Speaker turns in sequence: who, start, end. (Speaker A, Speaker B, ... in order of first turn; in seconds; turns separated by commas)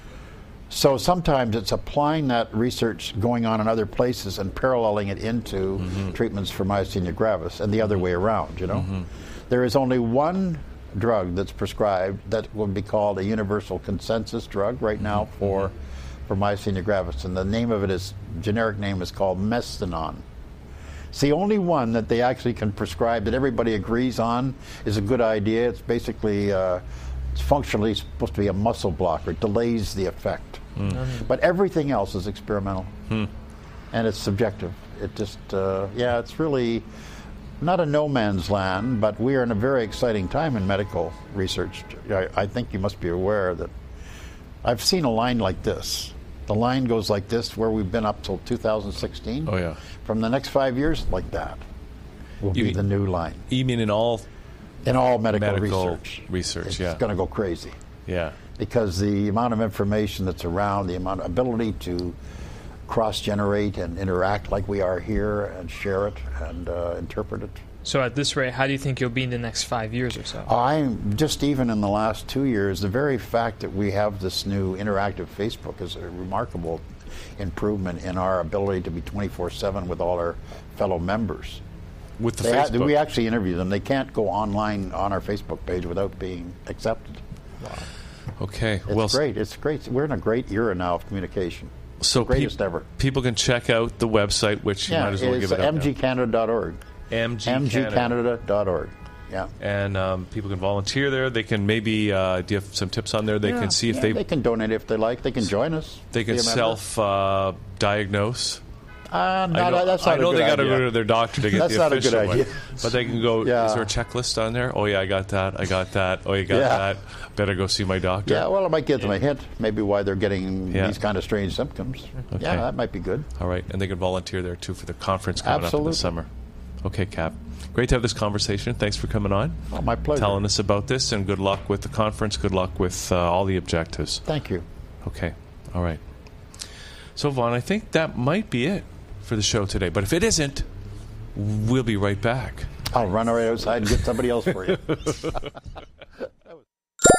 Speaker A: 0.7-15.7, Speaker B: 8.7-9.0, Speaker A: 16.3-20.2, Speaker A: 21.1-32.9, Speaker C: 30.9-31.2, Speaker A: 33.9-36.9, Speaker A: 37.6-43.7, Speaker A: 44.6-49.5, Speaker B: 49.5-49.8, Speaker A: 50.0-51.6, Speaker A: 52.4-53.5, Speaker B: 52.5-52.8, Speaker B: 53.5-54.2, Speaker A: 54.8-57.8, Speaker B: 55.3-57.0, Speaker B: 58.1-58.4, Speaker A: 58.6-62.2, Speaker A: 62.9-67.6, Speaker C: 67.8-70.5, Speaker A: 70.4-76.8, Speaker A: 77.4-81.6, Speaker B: 82.2-82.9, Speaker A: 82.4-87.2, Speaker C: 87.6-87.9, Speaker B: 88.4-89.2, Speaker A: 88.9-92.9, Speaker B: 92.0-95.9, Speaker A: 94.9-96.8, Speaker B: 97.1-98.2, Speaker A: 97.5-99.5, Speaker B: 99.6-104.2, Speaker A: 103.4-106.8, Speaker B: 106.1-108.6, Speaker A: 109.1-113.9, Speaker B: 109.5-118.5, Speaker A: 116.5-116.9, Speaker A: 118.3-123.3, Speaker B: 122.3-122.7, Speaker B: 123.4-126.3, Speaker A: 125.4-126.1, Speaker B: 126.8-129.6, Speaker A: 129.7-130.5, Speaker B: 130.2-134.2, Speaker A: 134.3-134.7, Speaker B: 135.0-136.0, Speaker B: 137.2-140.7, Speaker B: 141.3-142.7, Speaker A: 142.9-145.3